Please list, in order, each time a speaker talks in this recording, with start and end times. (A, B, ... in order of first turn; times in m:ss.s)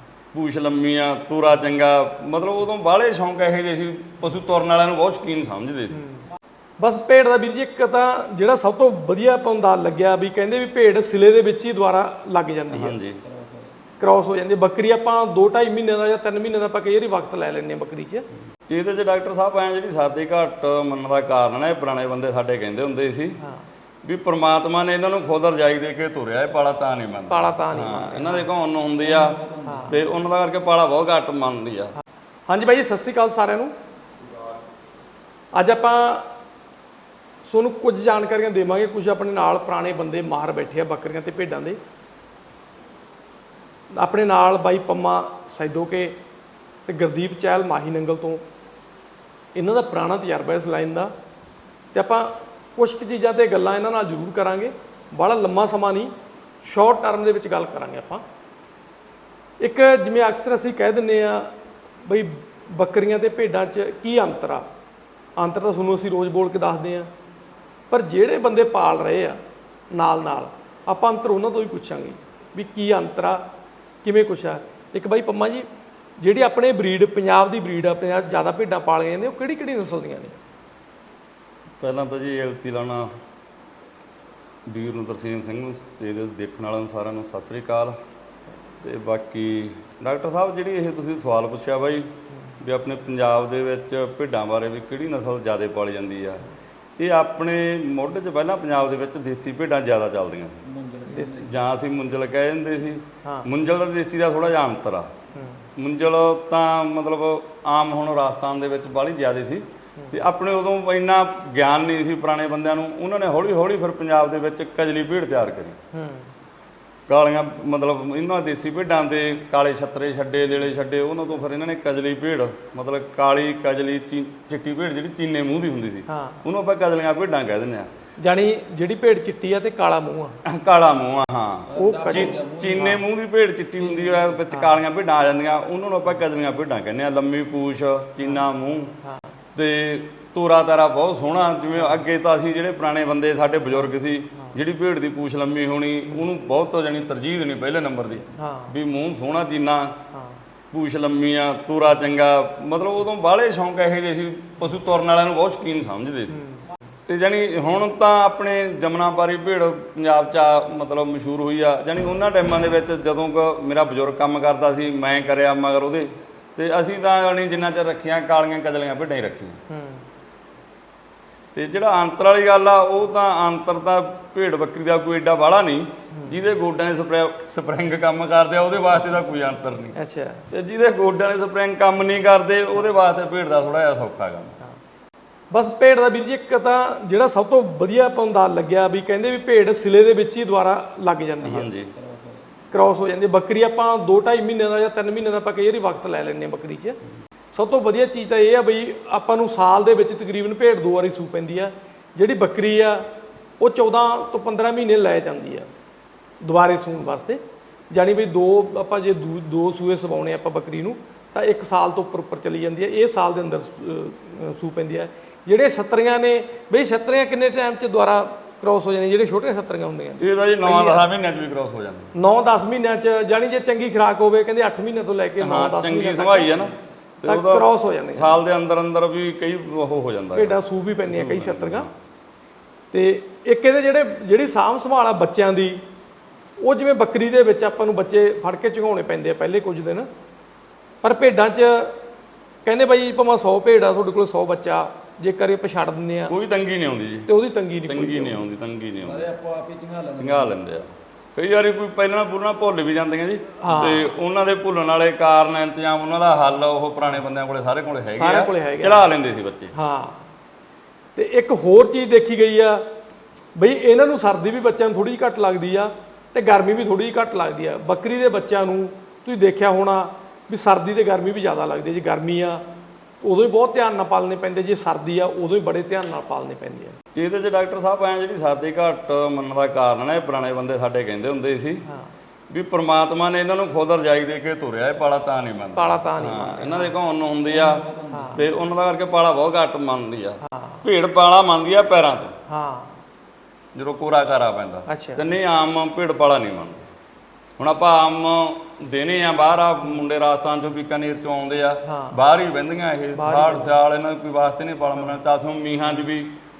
0:00.3-0:06.0 A
0:06.8-0:13.0 B
0:12.7-0:13.2 A
0:13.2-0:13.7 C
0:14.0-0:18.2 B
0:18.7-0:23.4 A
0:24.0-0:31.9 A
0:27.3-0:28.5 B
0:29.0-0:30.0 C
0:29.6-0:29.9 B
0:32.5-0:33.7 B
0:35.5-0:36.3 B
0:37.4-0:41.8 B
0:43.9-0:46.2 B
0:46.8-0:48.4 B
0:49.5-0:51.1 B
0:51.9-0:58.2 B
0:59.6-1:01.5 B
1:02.0-1:04.7 B
1:05.4-1:07.1 B
1:07.9-1:09.4 B
1:09.9-1:13.4 B
1:14.0-1:15.7 B
1:16.2-1:20.4 B
1:21.8-1:23.1 A
1:24.6-1:28.0 A
1:28.8-1:32.1 A
1:32.6-1:36.4 A
1:37.0-1:40.6 A
1:40.6-1:41.5 C
1:41.1-1:41.5 B
1:41.4-1:45.1 A
1:45.4-1:45.6 B
1:45.8-1:55.8 A
1:55.9-1:56.3 B
1:57.1-2:07.9 A
2:06.1-2:06.4 B
2:08.2-2:10.4 B
2:10.4-2:18.9 A
2:11.7-2:12.9 C
2:11.7-2:13.0 B
2:14.5-2:14.8 B
2:19.5-2:30.0 A
2:28.4-2:28.7 B
2:30.7-2:36.4 A
2:37.1-2:49.6 A
2:49.7-2:50.0 B
2:51.5-3:00.0 A
2:59.9-3:00.4 B
3:00.5-3:04.6 A
3:05.5-3:11.7 B
3:11.4-3:11.9 A
3:12.0-3:12.4 C
3:12.7-3:17.0 B
3:17.5-3:23.1 B
3:23.6-3:25.7 B
3:26.4-3:41.1 B
3:40.2-3:42.1 A
3:42.1-3:46.6 B
3:45.4-3:51.9 A
3:47.3-3:48.4 B
3:50.3-3:51.9 B
3:52.9-3:55.8 B
3:56.6-4:00.1 B
4:01.0-4:02.0 B
4:02.6-4:06.3 B
4:06.3-4:07.3 A
4:07.3-4:08.4 B
4:07.8-4:09.3 A
4:09.0-4:10.6 C
4:10.2-4:19.7 A
4:13.6-4:14.1 B
4:18.1-4:19.1 B
4:19.7-4:20.2 B
4:21.1-4:22.9 B
4:23.6-4:32.6 B
4:33.2-4:37.0 B
4:37.1-4:41.8 A
4:42.5-4:47.8 A
4:45.8-4:46.9 B
4:47.5-4:48.4 C
4:48.1-4:48.4 B
4:48.3-4:52.3 A
4:50.6-4:50.8 B
4:52.5-4:53.0 B
4:53.7-4:56.8 A
4:54.9-4:55.2 B
4:57.6-5:06.3 A
5:01.8-5:02.2 B
5:03.2-5:03.7 B